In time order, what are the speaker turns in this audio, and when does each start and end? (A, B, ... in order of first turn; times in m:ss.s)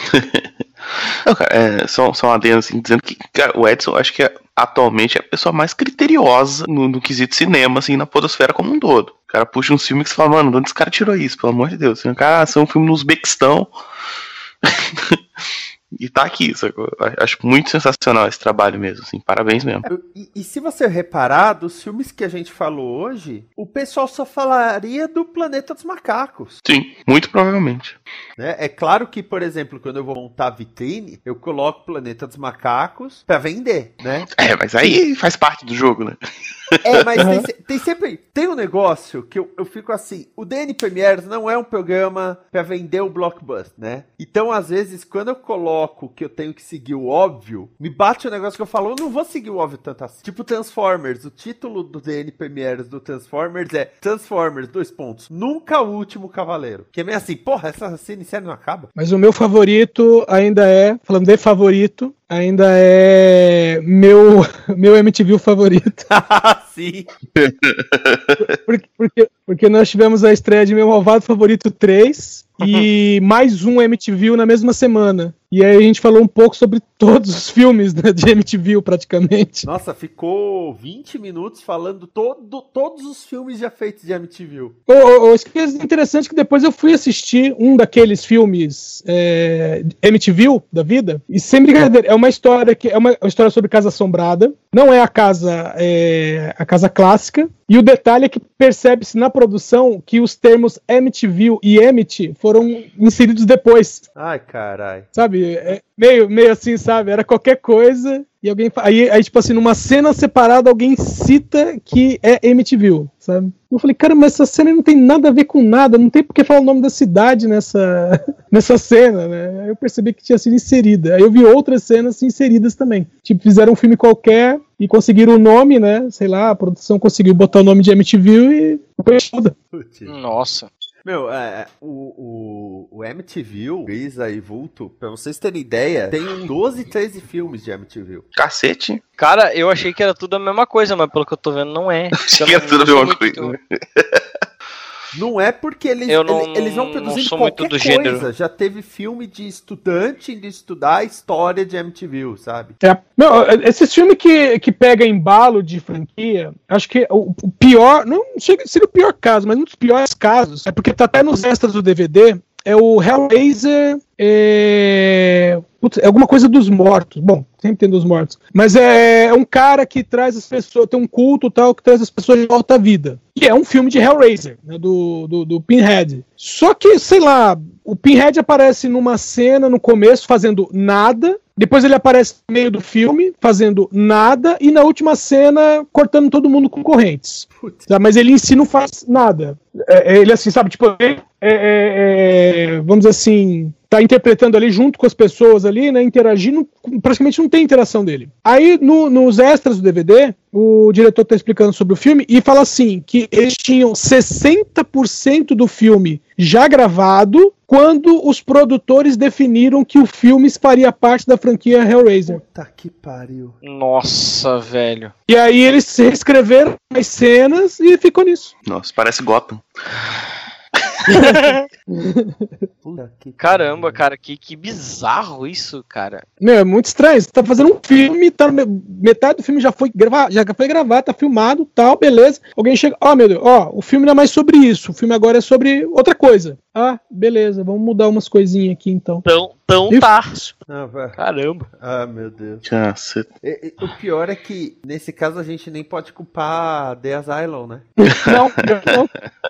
0:00.1-0:00.5 A
0:01.2-0:13.7 A
0:15.9-0:19.8 A
0:19.8-0:26.6 B
0:26.6-0:28.0 A
0:28.4-0:34.3 B
0:34.4-0:36.2 A
0:36.8-0:58.9 B
0:59.0-1:06.1 C
1:06.1-1:07.1 B
1:07.4-1:08.4 A
1:08.6-1:19.7 C
1:19.6-1:24.8 B
1:24.9-1:44.0 C
1:44.2-1:45.1 B
1:45.1-2:09.5 C
2:09.7-2:10.2 B
2:10.1-2:10.7 D
2:11.0-2:18.3 B
2:18.4-2:19.0 A
2:19.2-2:23.5 D
2:22.3-2:24.2 A
2:25.1-2:32.8 B
2:26.1-2:28.3 D
2:32.8-3:32.4 C
3:07.6-3:07.9 B
3:32.3-3:33.6 B
3:33.6-3:35.1 D
3:35.3-3:38.5 C
3:38.7-3:39.6 A
3:41.1-3:42.5 C
3:41.2-3:41.6 D
3:42.8-3:44.0 B
3:43.4-3:46.2 D
3:46.4-3:59.2 C
3:59.2-4:00.5 D
4:00.7-4:01.2 B
4:01.2-4:01.7 D
4:01.8-4:02.6 B
4:02.6-4:03.3 A
4:03.4-4:07.9 B
4:08.0-4:09.1 C